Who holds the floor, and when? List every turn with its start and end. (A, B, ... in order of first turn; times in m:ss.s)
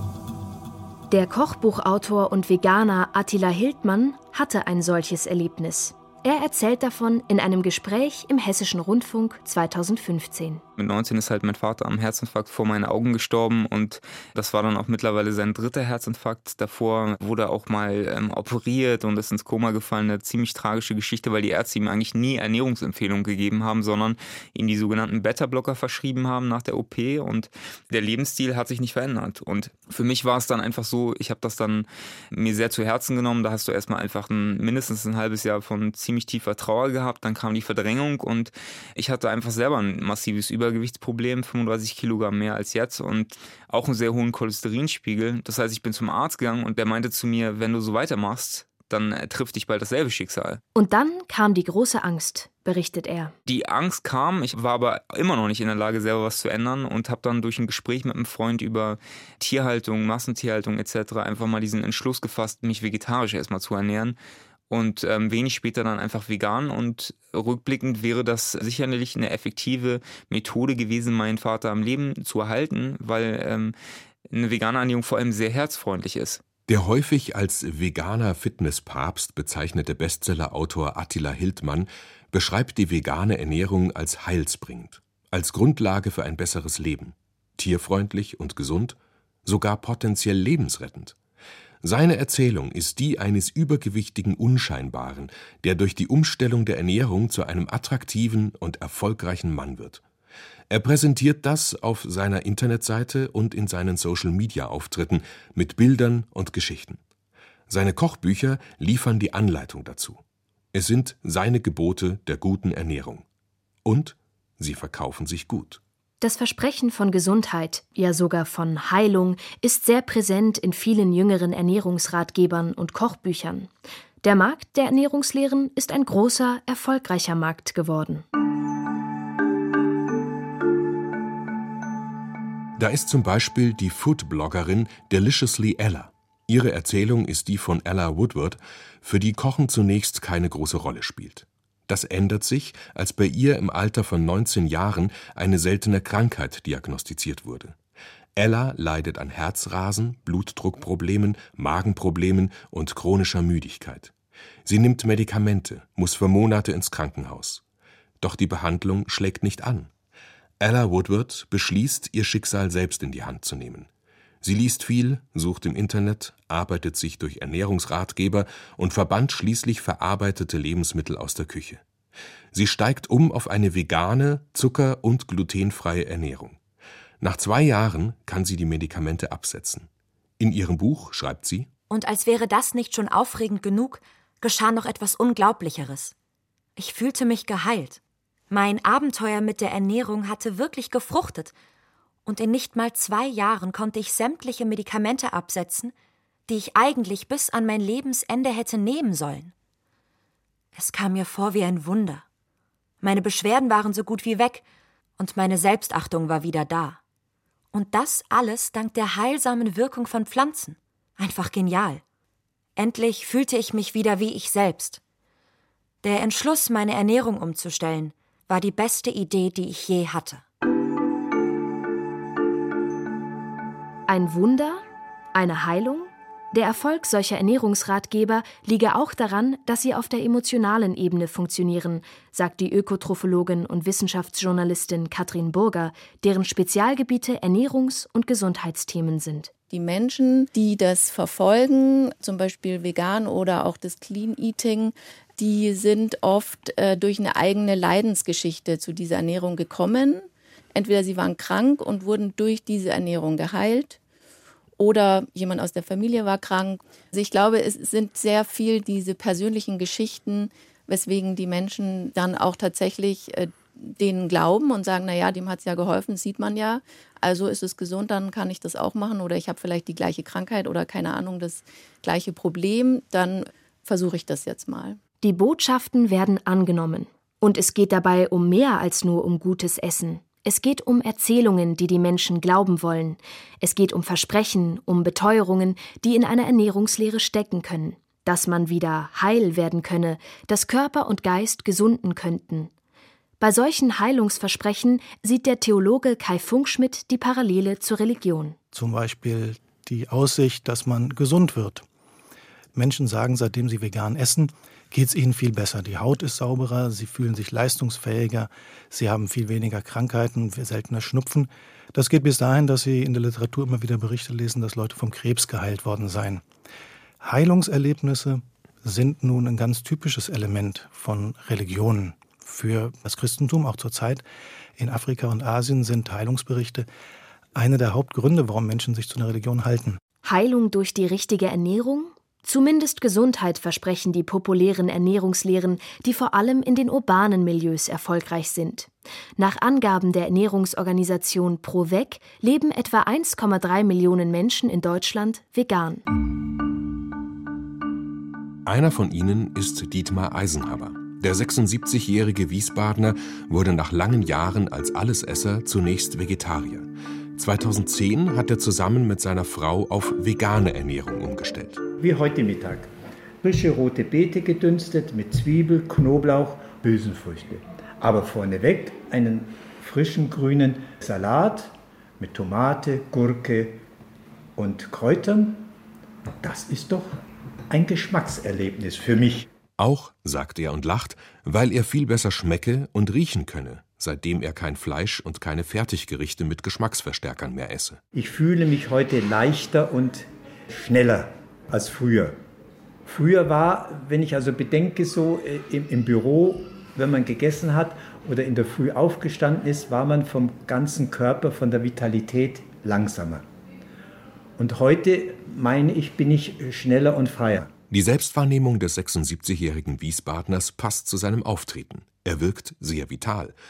0:01.1-0:10.6 A
0:10.8-0:50.6 B
0:50.7-0:53.3 A
0:53.4-1:04.2 B
1:04.7-1:13.7 B
1:14.3-1:16.4 B
1:16.7-1:31.2 C
1:31.8-1:40.0 C
1:40.7-1:47.0 C
1:47.7-1:50.2 C
1:50.7-1:53.2 C
1:53.8-1:55.8 C
1:56.2-2:03.7 A
2:04.2-2:08.2 A
2:12.8-2:27.7 C
2:28.4-2:34.1 C
2:34.6-2:37.6 C
2:38.2-2:39.9 C
2:40.6-2:43.9 C
2:44.4-2:51.8 C
2:52.5-2:56.6 C
2:57.2-2:59.9 C
3:00.4-3:01.7 C
3:01.9-3:06.1 D
3:06.8-3:11.5 D
3:12.2-3:15.9 D
3:16.5-3:19.5 D
3:20.7-3:22.2 D
3:23.0-3:24.6 D
3:25.2-3:27.0 D
3:27.7-3:32.0 D
3:32.8-3:35.0 D
3:36.0-3:40.4 D
3:44.1-3:59.5 A
3:59.7-4:14.0 E
4:14.8-4:35.0 E
4:35.2-4:52.7 A
4:53.4-4:58.6 A
4:58.7-5:01.8 F
5:02.7-5:16.4 F
5:17.2-5:24.2 F
5:24.8-5:26.9 F
5:27.5-5:30.0 F
5:30.2-5:46.0 A
5:48.6-6:01.8 C
6:02.0-6:02.9 G
6:03.4-6:13.8 G
6:14.6-6:15.7 G
6:16.4-6:17.2 G
6:17.7-6:19.5 G
6:19.8-6:28.0 C
6:28.1-6:32.4 G
6:33.0-6:43.4 G
6:44.6-6:47.7 G
6:47.9-6:53.5 C